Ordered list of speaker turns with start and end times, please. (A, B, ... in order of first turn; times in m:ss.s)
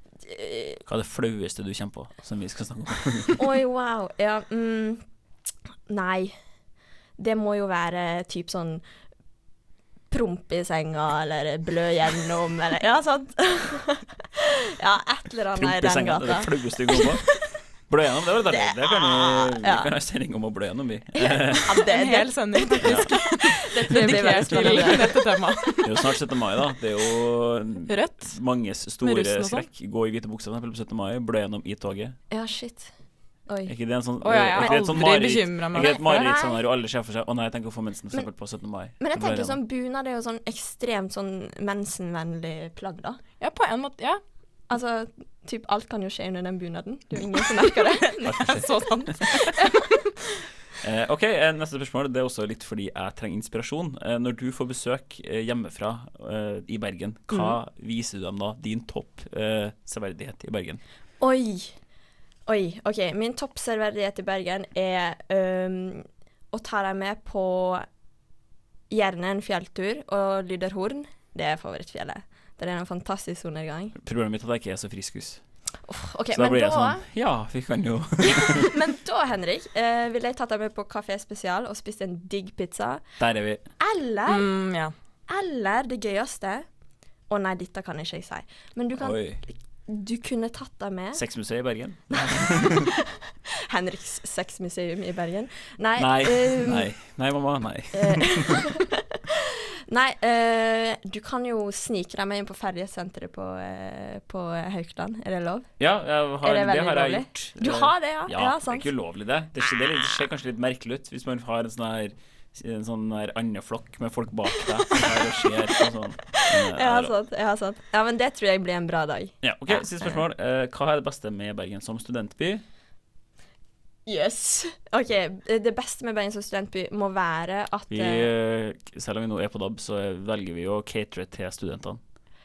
0:00.2-0:00.8 A
0:00.8-0:03.4 B
0:03.4-0:05.0 A
0:05.9-0:06.4 A
0:07.2-0:08.8 A
0:10.1-0:17.3 A
0:15.5-0:21.7 B
0:18.5-0:19.9 A
0:21.2-0:25.2 A
0:21.7-0:25.9 C
0:22.8-0:23.1 B
0:24.1-0:25.0 B
0:25.8-0:32.2 B
0:27.9-0:29.7 C
0:32.3-0:32.9 A
0:33.4-0:33.7 A
0:33.6-0:39.6 B
0:34.2-0:36.0 C
0:34.6-0:35.1 A
0:35.7-0:36.6 A
0:39.0-0:43.2 A
0:43.4-0:44.2 C
0:44.7-0:48.5 A
0:48.1-0:49.9 C
0:48.2-0:49.1 B
0:50.8-1:00.8 B
0:57.3-0:57.6 A
1:01.2-1:01.8 A
1:02.5-1:07.8 A
1:08.9-1:13.9 A
1:13.9-1:15.4 B
1:15.9-1:17.0 A
1:16.3-1:18.7 B
1:18.2-1:23.1 A
1:23.2-1:23.6 B
1:23.8-1:24.5 A
1:24.3-1:24.9 C
1:25.3-1:26.6 A
1:27.3-1:31.2 A
1:29.0-1:29.4 B
1:31.1-1:32.9 B
1:32.1-1:32.8 A
1:33.7-1:36.9 A
1:36.0-1:38.5 B
1:37.9-1:38.9 A
1:39.9-1:45.7 A
1:45.8-1:57.1 B
1:46.4-1:48.9 A
1:56.3-2:00.2 A
1:59.4-2:02.6 B
2:04.0-2:08.3 A
2:07.9-2:12.0 B